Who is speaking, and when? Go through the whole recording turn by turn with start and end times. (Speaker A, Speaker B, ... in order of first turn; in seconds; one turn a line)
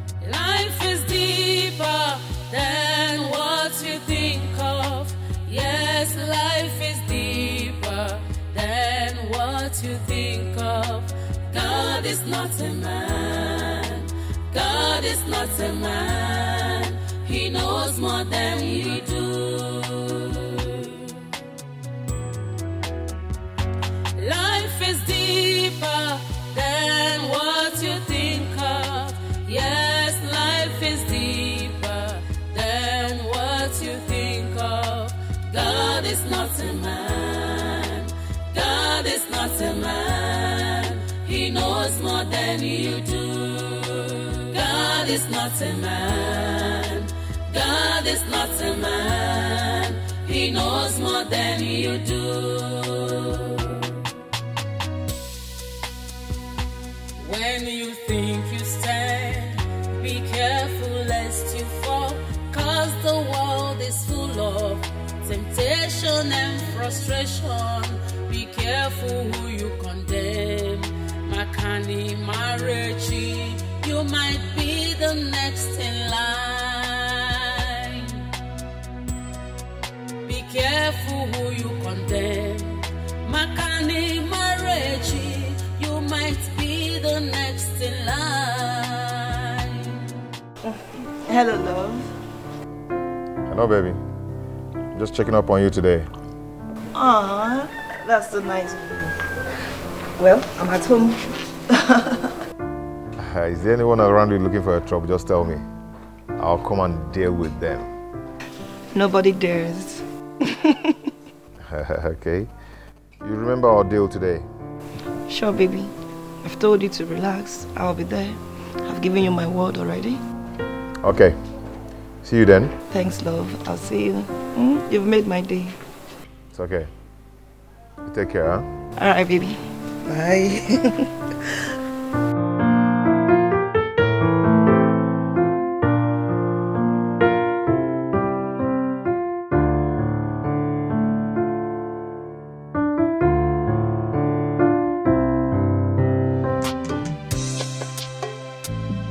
Speaker A: 0.2-21.2
Speaker A: 24.2-53.8
Speaker A: 57.2-78.2
Speaker A: 80.3-90.1
Speaker B: 91.3-92.1
Speaker C: 93.5-94.0
Speaker C: 94.9-96.1
Speaker B: 97.0-98.8
Speaker B: 100.2-102.3
Speaker C: 103.2-105.6
Speaker C: 106.4-107.9
Speaker B: 108.9-110.0
Speaker C: 111.6-112.5
Speaker C: 113.2-114.5
Speaker B: 115.3-115.9
Speaker B: 116.4-120.2
Speaker C: 121.0-121.4
Speaker C: 122.2-122.8
Speaker B: 122.9-125.8
Speaker C: 126.5-126.9
Speaker C: 128.1-128.7
Speaker B: 129.0-130.8